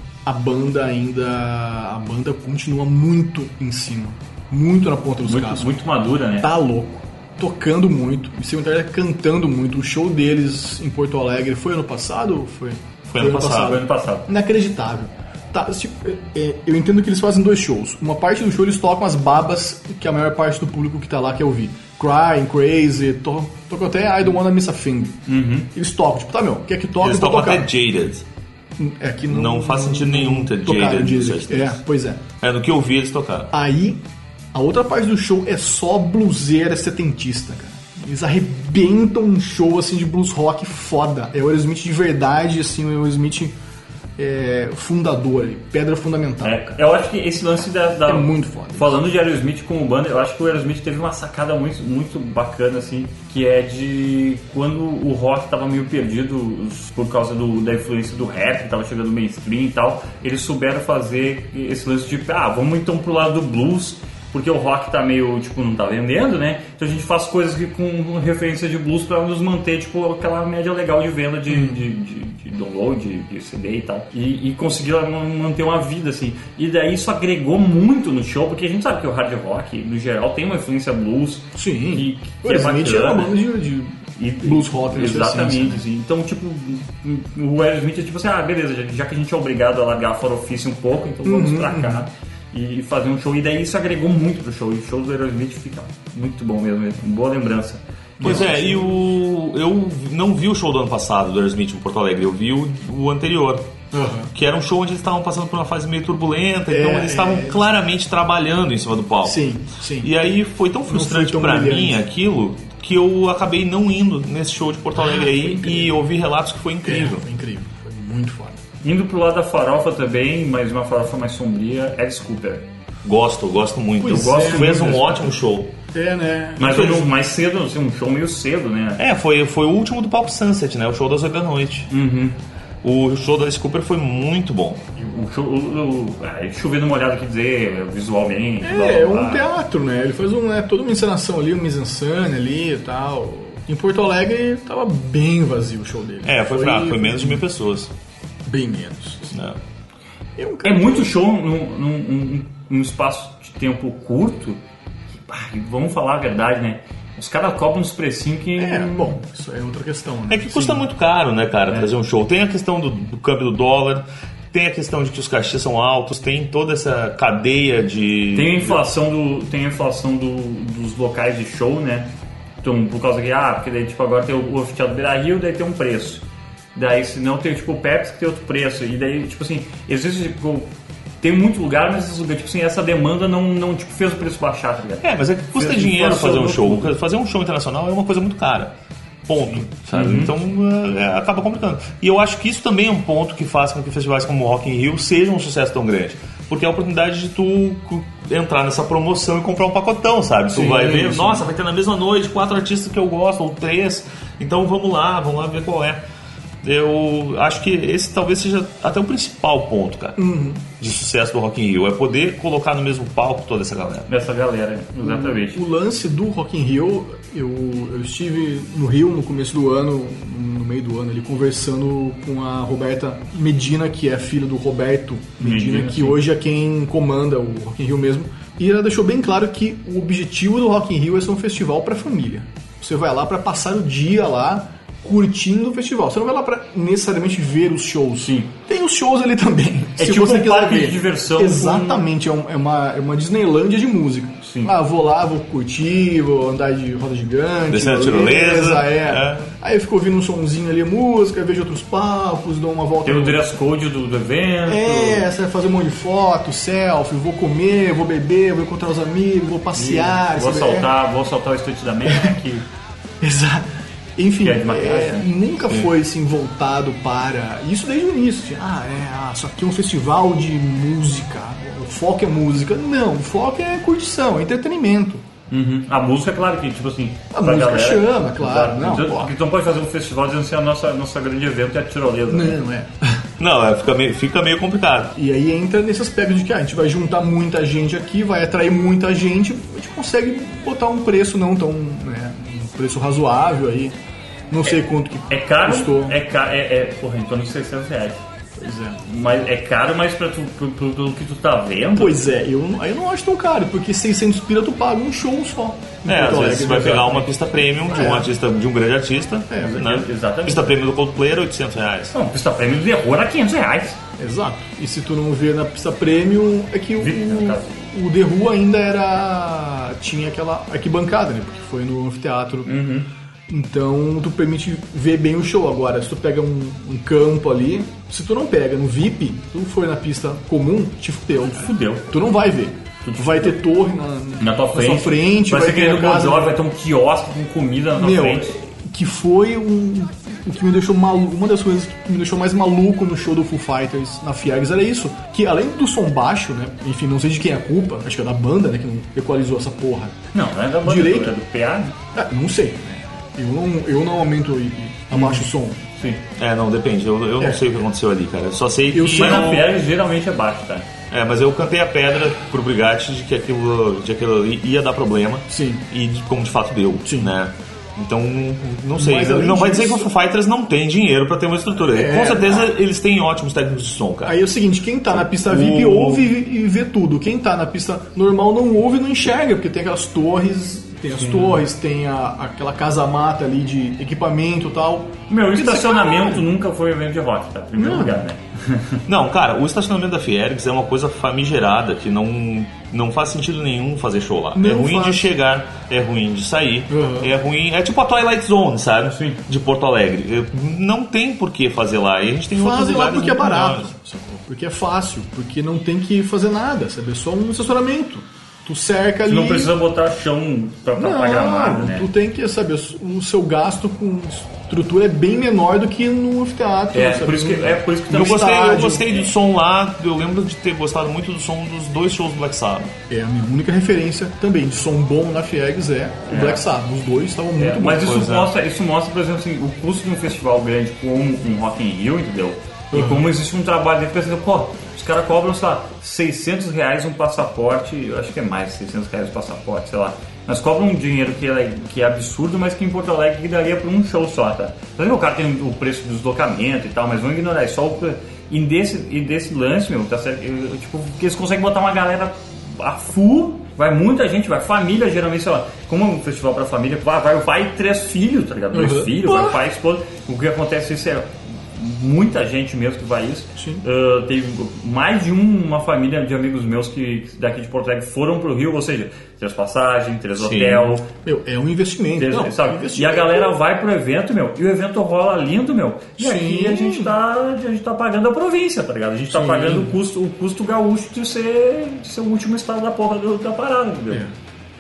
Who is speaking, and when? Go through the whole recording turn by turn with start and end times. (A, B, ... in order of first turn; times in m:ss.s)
0:00.2-0:05.7 A
0:05.3-0:06.5 B
0:06.4-0:25.2 A
0:13.1-0:13.8 C
0:13.2-0:14.3 B
0:25.3-0:25.7 B
0:25.7-0:27.7 A
0:27.0-0:28.2 C
0:28.8-0:32.2 A
0:29.3-0:31.8 C
0:32.4-0:33.5 C
0:33.5-0:43.6 A
0:44.2-0:46.8 A
0:46.4-1:23.3 B
0:48.1-0:49.0 A
1:11.5-1:11.8 A
1:21.5-1:25.8 A
1:24.2-1:38.4 B
1:31.2-1:32.1 A
1:38.2-1:38.9 A
1:38.2-1:43.7 C
1:43.9-1:44.3 A
1:44.3-1:49.4 C
1:46.7-1:47.8 A
1:49.2-1:50.1 A
1:50.0-1:57.2 C
1:50.9-1:52.0 A
1:55.0-1:56.0 A
1:56.8-1:58.6 A
1:58.8-2:02.7 B
2:03.0-2:05.7 C
2:04.0-2:05.0 A
2:04.0-2:05.3 B
2:05.9-2:07.0 A
2:06.6-2:09.0 B
2:09.0-2:11.9 C
2:11.9-2:12.4 B
2:12.8-2:14.8 C
2:15.0-2:19.5 B
2:18.6-2:27.4 A
2:26.2-2:27.9 C
2:28.5-2:29.4 A
2:29.3-2:29.6 C
2:30.4-2:31.2 A
2:30.6-2:34.6 B
2:35.3-2:39.2 B
2:38.6-2:40.9 A
2:40.3-2:48.8 C
2:48.3-2:52.1 B
2:52.6-2:56.2 B
2:56.8-3:00.7 B
3:01.2-3:06.9 B
3:05.0-3:08.7 C
3:09.3-3:26.0 C
3:09.9-3:10.3 B
3:20.5-3:21.4 B
3:26.6-3:30.2 C
3:30.2-3:30.6 A
3:30.8-3:34.1 C
3:34.1-3:35.6 B
3:35.0-4:13.4 A
3:45.4-3:46.2 B
3:58.2-3:58.5 B
4:00.0-4:02.1 B
4:04.4-4:04.7 B
4:07.7-4:09.5 C
4:13.0-4:15.3 B
4:14.7-4:20.9 A
4:19.8-4:22.6 B
4:23.2-4:35.2 A
4:24.4-4:25.3 B
4:35.5-4:42.6 B
4:37.3-4:39.3 A
4:42.3-4:43.3 A
4:43.4-4:45.1 C
4:45.2-4:54.0 A
4:54.5-4:56.2 A
4:55.3-4:58.2 B
4:58.6-4:59.0 A
4:59.0-5:02.2 B
5:02.0-5:07.4 A
5:06.0-5:12.1 C
5:07.9-5:08.3 A
5:09.5-5:09.8 A
5:09.6-5:10.7 B
5:12.1-5:14.0 B
5:14.2-5:22.8 A
5:17.0-5:17.7 B
5:22.6-5:23.1 B
5:23.5-5:36.6 A
5:31.5-5:32.1 B
5:33.0-5:33.6 B
5:34.4-5:38.6 B
5:38.0-5:50.2 A
5:50.3-5:52.0 B
5:50.8-5:51.4 A
5:52.1-5:56.0 A
5:55.1-5:55.4 B
5:56.4-5:59.7 C
5:58.9-5:59.6 A
5:59.2-6:00.9 B
6:01.1-6:14.4 C
6:05.5-6:05.9 A
6:07.0-6:07.3 A
6:09.0-6:10.1 A
6:11.9-6:12.7 A
6:14.2-6:26.5 A
6:15.3-6:16.3 C
6:21.1-6:21.6 B
6:25.3-6:29.0 B
6:27.8-6:28.2 A
6:29.1-6:43.9 C
6:34.6-6:35.3 A
6:36.9-6:37.3 A
6:39.1-6:39.4 B
6:42.6-6:49.7 A
6:49.3-6:52.1 B
6:51.0-6:59.2 A
6:56.9-6:58.7 B
6:58.1-7:02.9 C
7:03.1-7:08.2 A
7:06.3-7:06.6 B
7:07.6-7:51.1 B
7:08.0-7:08.5 C
7:12.9-7:13.3 A
7:38.7-7:39.6 A
7:43.6-7:43.8 A
7:50.4-7:50.9 C
7:51.2-7:53.6 A
7:52.2-8:04.3 B
7:56.2-7:57.1 A
7:59.3-7:59.9 A